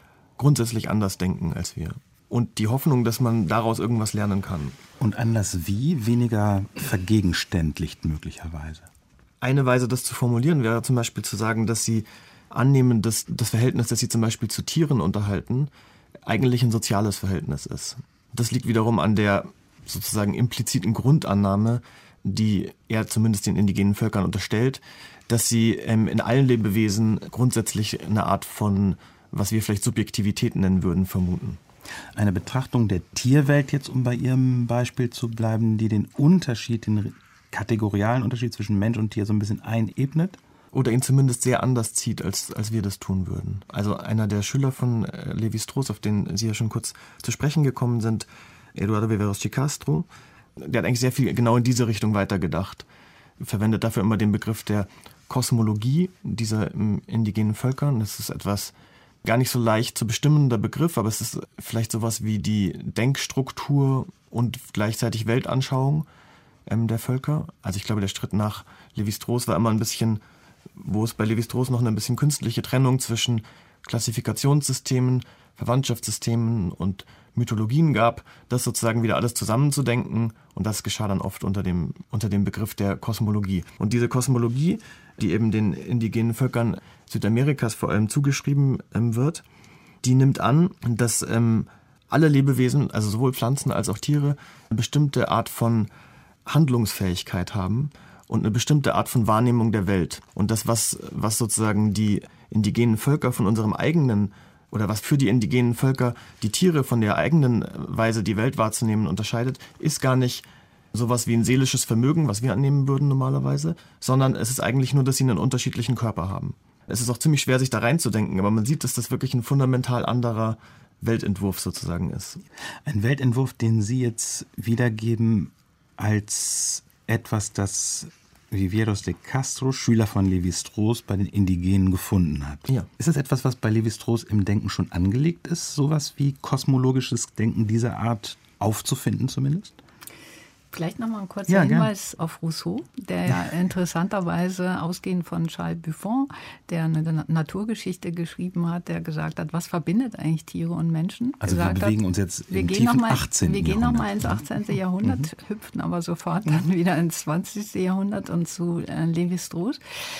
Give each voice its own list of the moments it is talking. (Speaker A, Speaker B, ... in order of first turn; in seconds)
Speaker A: 0.4-4.8, 9.4-15.7, 16.2-31.6, 40.7-52.9, 53.4-66.1, 66.7-70.2, 70.8-89.4, 90.0-95.9, 96.5-122.4
Speaker B: 5.0-8.9, 32.1-40.4, 122.8-139.8, 141.5-141.9, 151.4-154.4
Speaker C: 140.7-151.9, 152.5-159.8